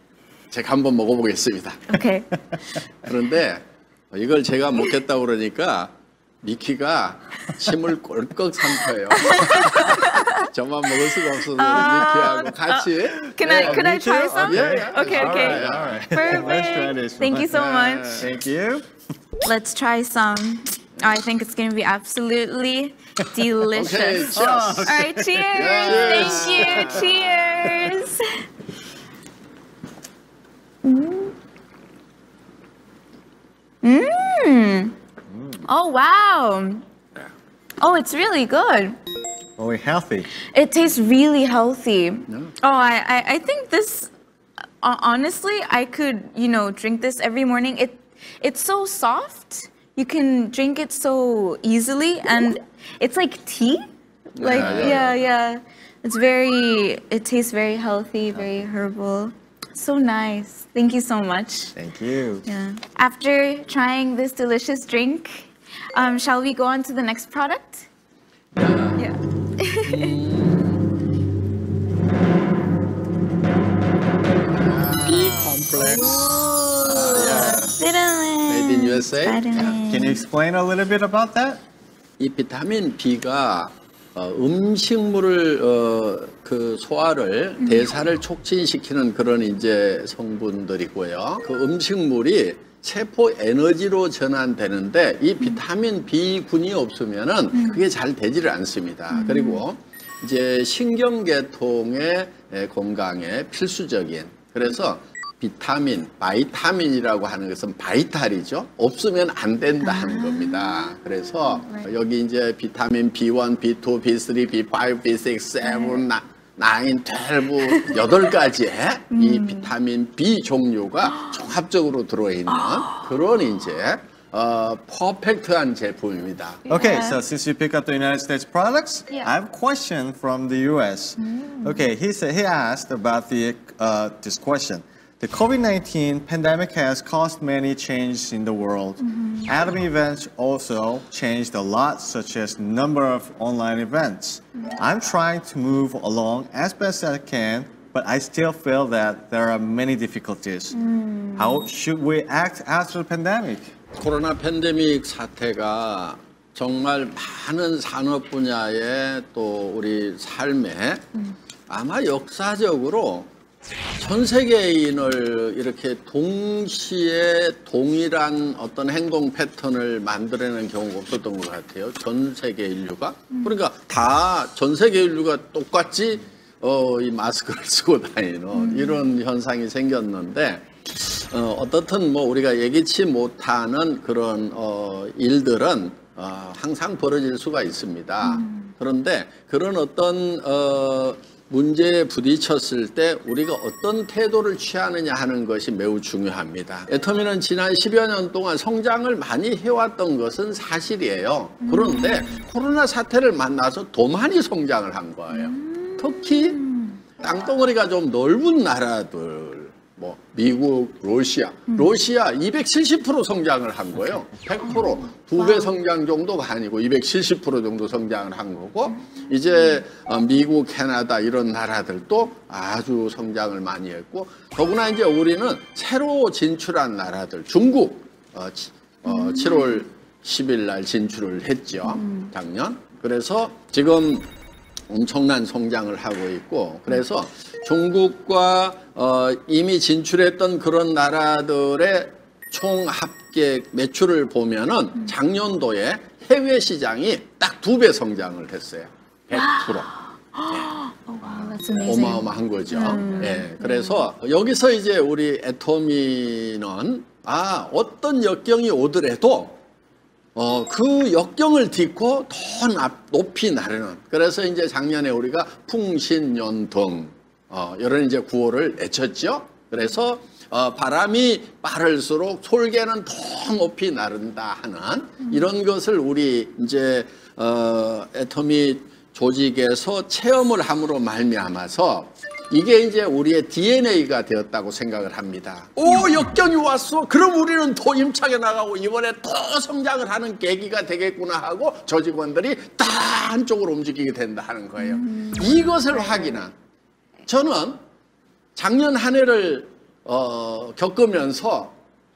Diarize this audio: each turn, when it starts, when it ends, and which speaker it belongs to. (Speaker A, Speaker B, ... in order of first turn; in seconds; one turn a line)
Speaker A: 0.5-2.0
Speaker B: 1.9-2.3
Speaker A: 3.0-16.1
Speaker B: 9.1-10.5
Speaker B: 11.5-18.3
Speaker C: 13.5-18.9
Speaker A: 17.5-18.1
Speaker B: 19.4-28.4
Speaker A: 23.7-24.9
Speaker C: 24.3-27.3
Speaker A: 25.5-27.1
Speaker B: 30.8-31.3
Speaker B: 33.8-34.9
Speaker C: 35.3-35.6
Speaker B: 35.6-36.8
Speaker B: 37.8-39.0
Speaker C: 39.6-40.3
Speaker B: 40.5-44.1
Speaker B: 44.8-61.7
Speaker A: 54.4-55.1
Speaker C: 54.5-55.1
Speaker C: 61.8-62.5
Speaker B: 62.5-67.9
Speaker A: 68.5-69.0
Speaker B: 69.0-70.2
Speaker A: 69.8-70.9
Speaker A: 74.6-77.8
Speaker B: 75.0-80.2
Speaker A: 78.5-79.8
Speaker C: 79.8-81.6
Speaker A: 82.2-126.6
Speaker B: 87.6-87.8
Speaker B: 99.1-99.6
Speaker B: 109.8-111.9
Speaker B: 119.1-119.7
Speaker B: 122.6-123.0
Speaker B: 126.7-127.2
Speaker C: 126.7-150.7
Speaker B: 131.2-131.8
Speaker B: 139.1-139.5
Speaker B: 150.7-151.7
Speaker C: 151.4-153.7
Speaker A: 153.9-161.0
Speaker A: 161.7-163.3
Speaker A: 164.0-206.6
Speaker B: 178.5-179.1
Speaker B: 188.2-188.7
Speaker B: 201.6-202.4
Speaker B: 205.3-207.0
Speaker A: 207.2-234.3
Speaker B: 214.7-215.7
Speaker B: 229.2-229.5
Speaker B: 231.8-232.3
Speaker A: 234.9-249.9
Speaker B: 249.4-249.7
Speaker B: 250.3-254.0
Speaker A: 250.5-250.7
Speaker A: 251.8-259.6
Speaker A: 260.3-296.5
Speaker B: 294.8-296.2
Speaker A: 297.2-297.8
Speaker A: 298.6-301.7